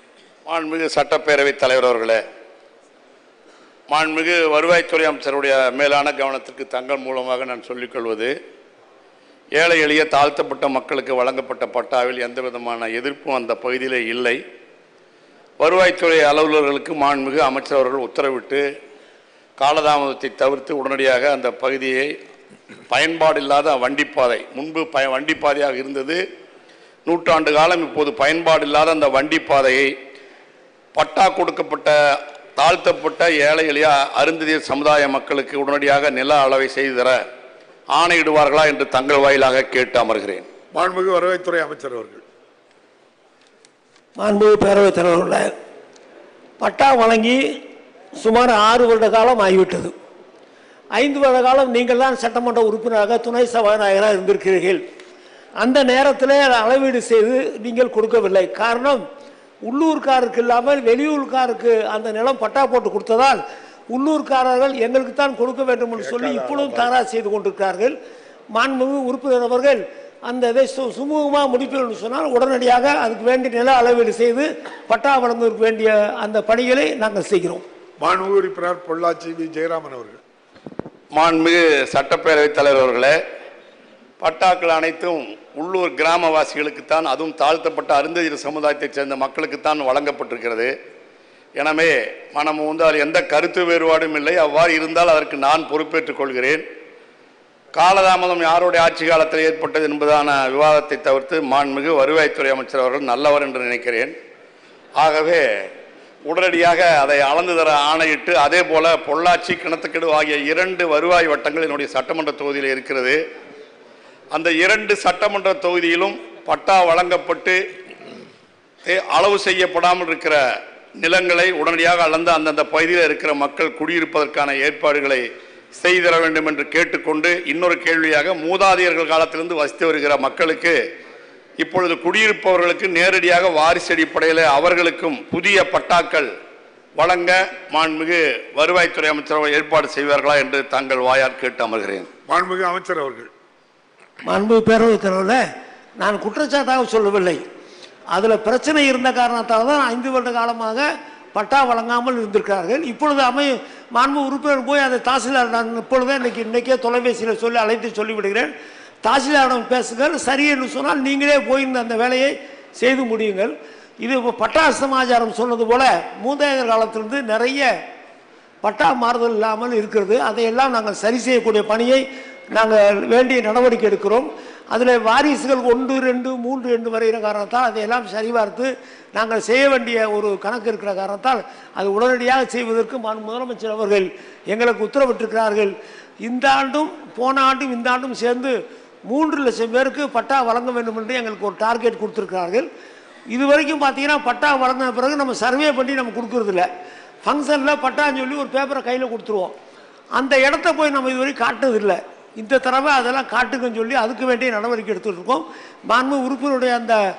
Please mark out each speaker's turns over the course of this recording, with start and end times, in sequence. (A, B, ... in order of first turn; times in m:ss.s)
0:00.4-0:02.2 A
0:03.9-0:08.3 A
0:09.6-0:14.4 A
0:15.6-0:18.6 A
0:19.6-0:22.1 A
0:22.9-0:26.2 A
0:27.0-0:29.9 A
0:30.9-0:37.2 A
0:37.9-0:40.5 A
0:40.7-0:42.2 B
0:44.2-0:45.5 C
0:46.6-0:47.6 C
0:48.2-0:49.9 C
0:51.0-0:54.8 C
0:55.6-0:59.0 C
0:59.6-1:03.4 C
1:03.9-1:07.9 C
1:06.0-1:06.9 B
1:08.5-1:17.6 C
1:18.0-1:20.2 B
1:21.1-1:23.2 A
1:24.2-1:30.7 A
1:31.6-1:36.6 A
1:37.7-1:44.1 A
1:45.0-1:45.7 A
1:46.2-1:53.2 A
1:54.3-1:57.6 A
1:58.8-2:00.4 A
2:01.0-2:05.2 A
2:05.8-2:10.8 A
2:11.6-2:16.3 A
2:17.0-2:22.1 A
2:22.3-2:23.3 B
2:24.2-2:25.4 C
2:26.0-2:27.4 C
2:28.1-2:38.5 C
2:39.0-2:47.7 C
2:48.6-3:05.7 C
3:06.2-3:08.5 C
3:09.1-3:12.7 C
3:13.3-3:16.7 C
3:17.2-3:19.5 C
3:20.2-3:27.0 C